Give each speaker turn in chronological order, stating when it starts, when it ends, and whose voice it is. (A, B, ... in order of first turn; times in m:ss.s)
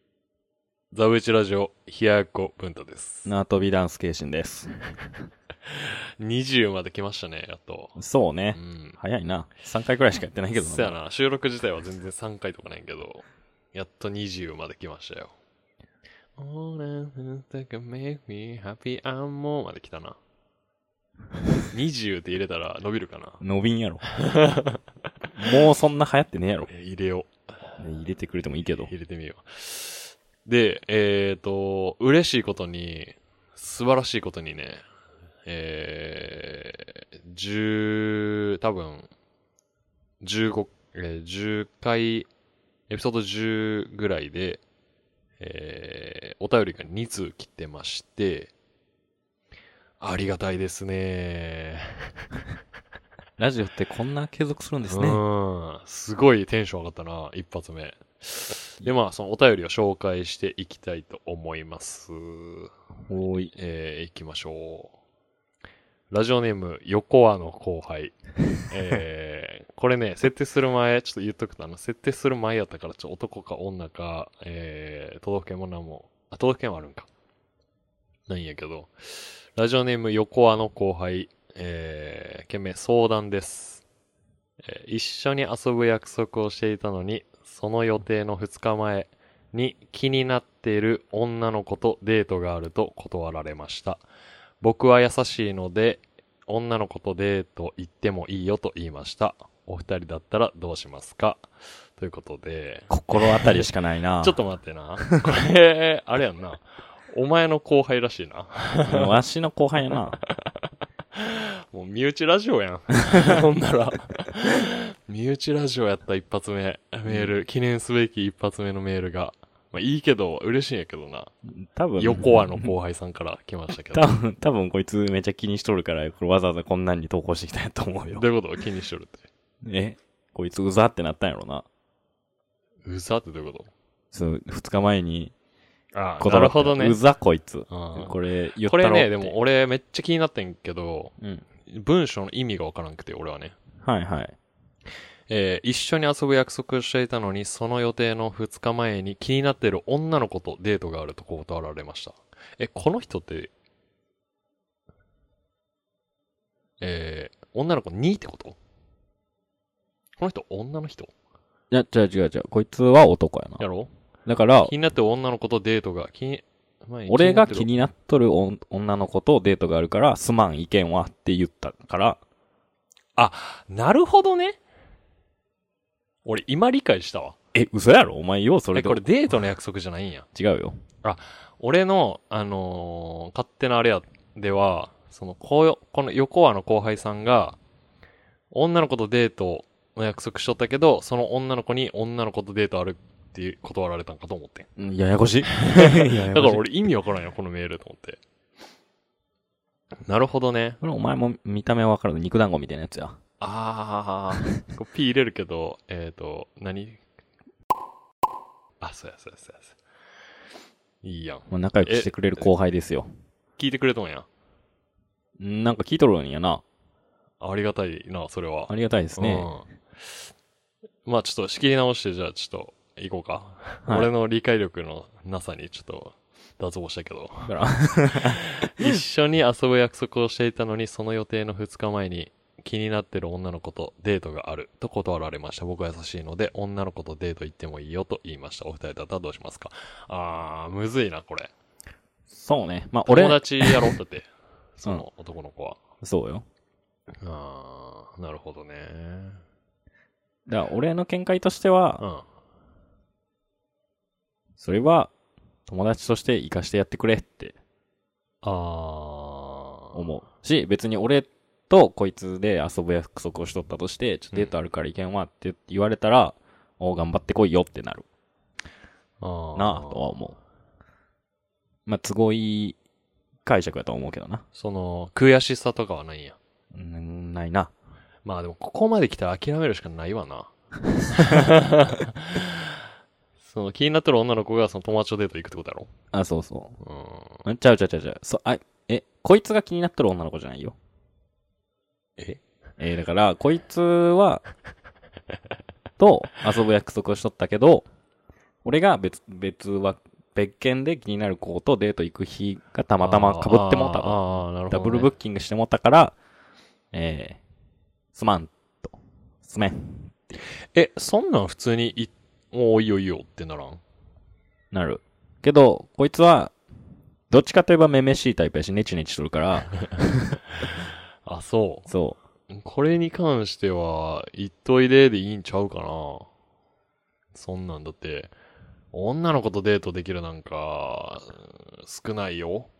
0:00.9-0:03.3 A
0:03.2-0:04.7 B
0:05.6-0:08.0 A
0:08.0-0:11.0 B
0:08.5-0:09.0 A
0:10.5-0:15.3 A
0:16.4-0:20.2 A
0:21.7-0:23.4 A
0:23.4-0:24.0 B
0:24.2-0:24.8 A
0:25.4-0:26.7 B
0:26.7-0:27.3 A
0:27.8-0:28.9 B
0:28.9-0:34.8 A
0:35.4-0:39.1 A
0:40.2-0:42.3 A
0:42.9-0:44.6 A
0:45.4-0:48.5 A
0:50.0-0:52.1 A
0:53.4-0:55.2 B
0:54.8-1:02.7 A
1:03.1-1:03.5 B
1:03.5-1:05.0 A
1:06.1-1:17.1 A
1:18.3-1:23.8 A
1:24.6-1:34.0 A
1:34.6-1:43.7 A
1:42.9-1:44.4 B
1:44.2-1:49.1 A
1:48.9-1:50.2 B
1:50.3-2:01.3 A
2:01.5-2:02.7 B
2:02.0-2:04.1 A
2:03.9-2:08.2 B
2:08.1-2:09.3 A
2:09.6-2:11.6 B
2:12.8-2:13.7 A
2:14.1-2:15.3 B
2:15.9-2:17.0 A
2:16.2-2:19.3 B
2:17.7-2:23.6 A
2:23.8-2:24.4 B
2:25.3-2:33.5 A
2:36.8-2:38.6 A
2:40.2-2:41.1 A
2:41.7-2:43.6 B
2:43.6-2:43.9 A
2:44.2-2:44.7 B
2:44.6-2:47.7 A
2:47.1-2:52.2 B
2:53.2-2:54.6 A
2:56.2-2:57.4 A
2:57.5-2:59.0 B
2:58.7-3:00.3 A
3:00.3-3:00.8 B
3:01.0-3:07.6 A
3:08.5-3:14.7 A
3:14.8-3:16.6 B
3:15.6-3:18.2 A
3:20.0-3:20.8 A
3:20.8-3:23.2 B
3:23.4-3:27.0 A
3:28.8-3:29.8 A
3:31.0-3:32.5 A
3:31.5-3:33.1 B
3:33.6-3:34.3 A
3:35.4-3:36.6 B
3:37.4-3:40.2 A
3:38.7-3:39.5 B
3:41.0-4:01.5 A
3:47.4-3:49.0 B
4:02.3-4:03.9 B
4:03.0-4:05.8 A
4:06.0-4:06.4 B
4:07.2-4:09.4 A
4:10.5-4:12.0 B
4:12.0-4:12.2 A
4:14.6-4:15.1 B
4:15.7-4:17.5 B
4:18.4-4:20.0 A
4:19.9-4:28.0 B
4:29.2-4:30.2 A
4:29.6-4:30.4 B
4:31.8-4:32.8 B
4:33.4-4:34.4 B
4:34.5-4:36.4 A
4:36.7-4:37.7 B
4:38.2-4:40.5 A
4:41.1-4:42.8 A
4:41.1-4:41.5 B
4:43.4-4:45.9 A
4:46.1-4:46.7 B
4:46.8-4:47.4 A
4:47.4-4:50.8 B
4:52.8-4:54.4 B
4:56.0-4:57.8 B
4:58.6-5:06.2 B
5:03.0-5:05.1 A
5:06.9-5:07.4 B
5:08.1-5:10.4 B
5:10.7-5:13.8 A
5:14.7-5:16.6 B
5:17.3-5:20.4 B
5:20.6-5:21.9 A
5:21.9-5:22.2 B
5:22.5-5:26.3 A
5:27.3-5:28.3 A
5:28.9-5:32.7 A